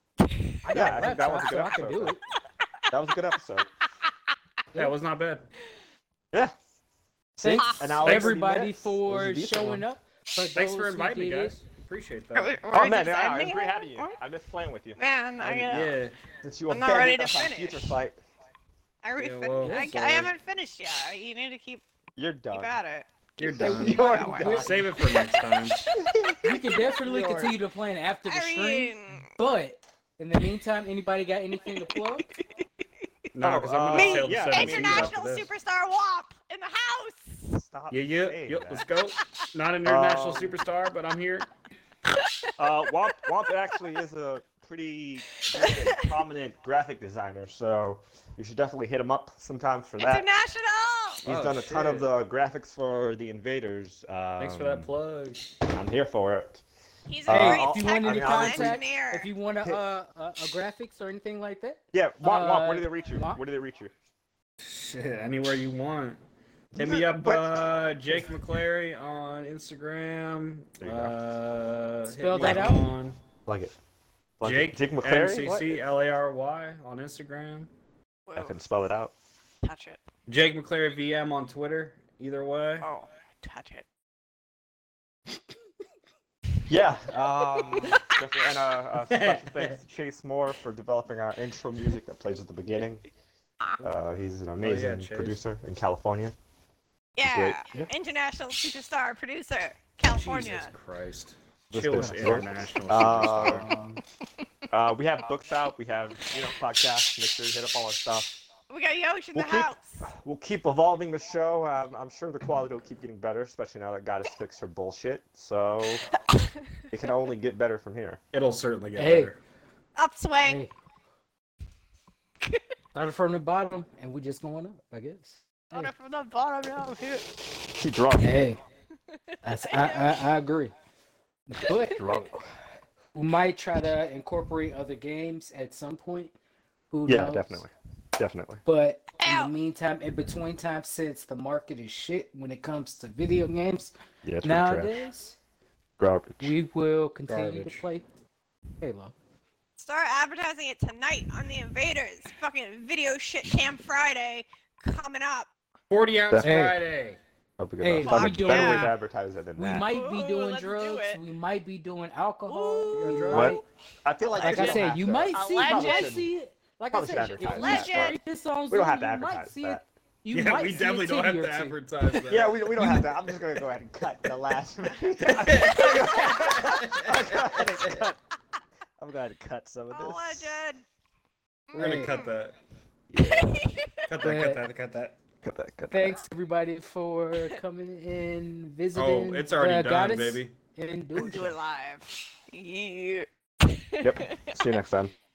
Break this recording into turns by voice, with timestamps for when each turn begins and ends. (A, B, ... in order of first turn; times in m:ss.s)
0:00.2-0:00.6 A
0:00.6-0:02.2 B
0:00.7-0:02.2 C
0:02.9-0:03.7 C
0:04.7-0:05.5 D
0:07.4-0:09.8 C
0:07.4-0:11.6 B
0:07.5-0:07.9 A
0:08.0-0:08.4 D
0:10.5-0:12.6 D
0:12.3-0:14.1 A
0:12.7-0:18.2 C
0:15.0-0:15.9 A
0:15.7-0:16.1 D
0:16.7-0:17.9 A
0:19.0-0:21.8 A
0:19.2-0:20.3 D
0:19.6-0:19.9 B
0:22.2-0:22.8 C
0:22.5-0:23.1 A
0:23.4-0:25.8 D
0:23.4-0:24.9 C
0:23.6-0:24.9 B
0:23.6-0:25.3 A
0:25.9-0:26.6 C
0:26.4-0:32.3 B
0:27.0-0:27.5 D
0:28.2-0:29.2 A
0:31.8-0:32.0 A
0:33.3-0:35.5 D
0:33.4-0:35.1 C
0:33.9-0:37.6 A
0:37.5-0:38.8 C
0:37.9-0:41.5 D
0:39.8-0:40.6 C
0:42.1-0:42.5 A
0:42.6-0:50.2 C
0:45.6-0:46.0 A
0:50.0-0:51.2 A
0:51.2-0:54.9 C
0:51.2-0:52.1 D
0:54.4-0:55.5 D
0:55.7-0:56.6 C
0:57.1-0:59.3 A
0:57.2-0:58.8 C
0:57.3-1:03.4 B
1:01.9-1:03.9 C
1:04.6-1:06.2 D
1:06.7-1:08.2 C
1:06.7-1:13.2 D
1:10.8-1:11.1 C
1:12.1-1:12.8 B
1:12.4-1:12.8 C
1:13.4-1:13.7 C
1:14.4-1:15.8 C
1:14.4-1:17.7 D
1:18.3-1:18.6 A
1:18.3-1:19.1 C
1:19.6-1:20.0 A
1:20.3-1:22.9 D
1:22.8-1:23.8 A
1:26.7-1:33.0 C
1:27.7-1:28.1 A
1:29.1-1:29.8 D
1:33.8-1:36.3 C
1:34.6-1:35.4 D
1:37.2-1:40.7 A
1:37.3-1:37.9 C
1:40.1-1:43.7 D
1:41.7-1:43.7 C
1:41.9-1:42.3 B
1:43.5-1:44.0 B
1:44.7-1:48.4 C
1:48.7-1:50.0 A
1:49.3-1:56.0 C
1:56.9-1:58.2 C
1:58.3-1:59.4 D
1:59.0-1:59.3 B
2:00.0-2:00.6 A
2:00.4-2:00.7 B
2:02.9-2:05.9 B
2:05.7-2:07.3 A
2:07.7-2:08.5 C
2:08.2-2:08.6 B
2:09.4-2:10.7 B
2:09.6-2:10.2 A
2:11.5-2:12.2 B
2:11.7-2:12.3 C
2:13.1-2:16.3 B
2:16.9-2:17.6 B
2:17.1-2:18.6 C
2:18.6-2:25.4 B
2:19.2-2:19.5 A
2:24.2-2:24.9 C
2:26.0-2:26.6 C
2:26.4-2:28.0 B
2:27.3-2:27.8 D
2:28.8-2:29.1 B
2:29.8-2:35.5 A
2:35.9-2:37.2 D
2:36.3-2:36.7 C
2:36.4-2:36.8 B
2:37.6-2:39.9 C
2:37.8-2:38.9 B
2:38.0-2:38.9 A
2:39.6-2:43.6 B
2:39.9-2:41.2 A
2:42.5-2:43.5 A
2:42.9-2:43.6 D
2:43.3-2:46.3 C
2:44.3-2:46.1 A
2:44.4-2:51.8 B
2:46.9-2:48.2 C
2:47.4-2:48.2 A
2:48.7-2:49.8 C
2:50.3-2:53.0 D
2:52.3-2:58.2 C
2:55.2-2:58.1 D
2:55.6-2:56.4 A
2:59.0-3:00.6 C
2:59.9-3:00.8 A
3:01.7-3:02.3 A
3:01.7-3:02.2 B
3:01.7-3:02.5 D
3:03.1-3:03.6 C
3:03.2-3:04.0 A
3:04.1-3:05.2 D
3:04.2-3:04.6 B
3:05.4-3:06.2 C
3:05.9-3:11.5 B
3:08.9-3:10.5 D
3:11.1-3:14.6 A
3:14.0-3:15.1 C